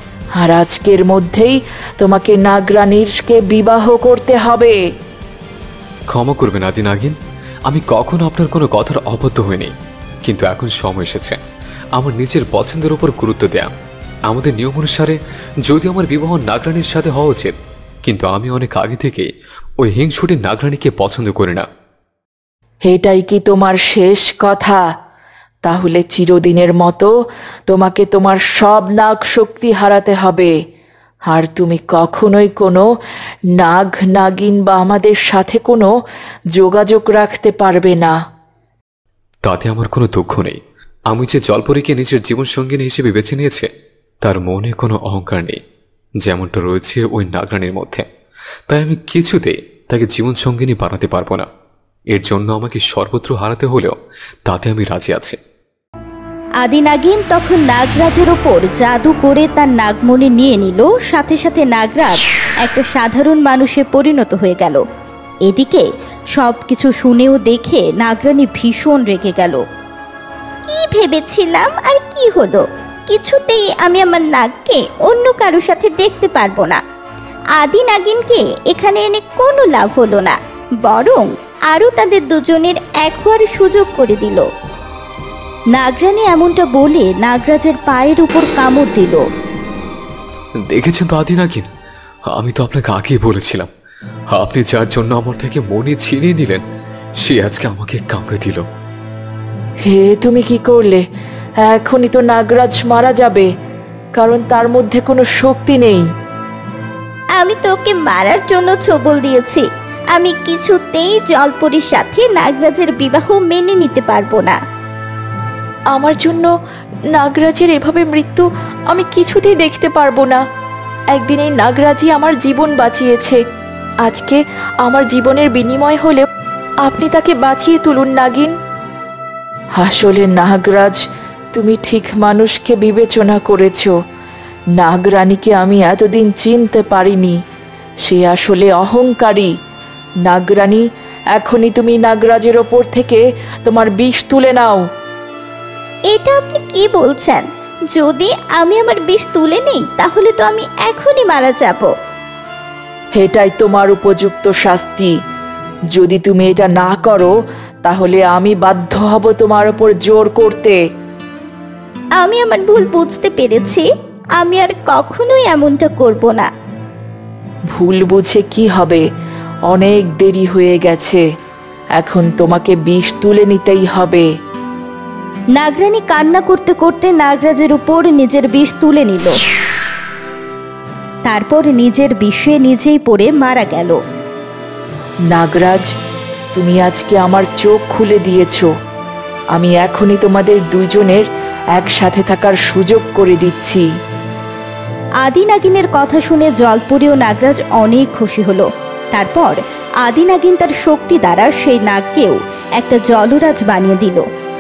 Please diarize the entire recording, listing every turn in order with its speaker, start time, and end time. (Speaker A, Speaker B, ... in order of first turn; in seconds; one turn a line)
Speaker A: 0.4-4.8
Speaker B: 6.1-9.7
Speaker B: 10.2-11.4
Speaker B: 12.0-13.7
Speaker B: 14.3-21.7
Speaker A: 22.9-24.8
Speaker A: 25.6-27.1
Speaker A: 27.7-30.5
Speaker A: 31.3-32.9
Speaker A: 33.6-35.9
Speaker A: 36.5-38.1
Speaker B: 39.5-43.7
Speaker B: 44.2-45.6
Speaker B: 46.2-48.0
Speaker B: 48.7-51.5
Speaker B: 52.1-53.9
Speaker B: 54.5-55.4
Speaker C: 56.6-64.8
Speaker C: 65.5-69.6
Speaker C: 70.7-76.8
Speaker C: 77.6-84.5
Speaker C: 85.7-89.2
Speaker B: 90.7-91.7
Speaker B: 92.3-93.7
Speaker B: 94.3-96.6
Speaker B: 97.2-98.7
Speaker A: 99.9-101.0
Speaker A: 101.6-103.5
Speaker A: 104.2-106.0
Speaker C: 107.4-114.6
Speaker A: 115.9-116.5
Speaker A: 117.1-120.4
Speaker A: 121.1-123.4
Speaker A: 124.0-126.2
Speaker A: 126.8-128.5
Speaker A: 129.8-131.0
Speaker A: 131.5-133.9
Speaker A: 134.8-137.4
Speaker A: 138.1-139.5
Speaker A: 140.3-140.8
Speaker A: 141.3-144.8
Speaker C: 146.1-151.9
Speaker A: 153.2-155.1
Speaker A: 155.9-157.3
Speaker A: 157.8-160.8
Speaker C: 162.2-163.9
Speaker C: 164.4-166.5
Speaker A: 167.7-169.0
Speaker A: 169.7-171.2
Speaker A: 172.0-174.3
Speaker C: 175.6-179.4
Speaker C: 181.3-184.0
Speaker A: 185.3-185.9
Speaker A: 186.6-188.7
Speaker A: 189.6-193.8
Speaker C: 195.2-204.2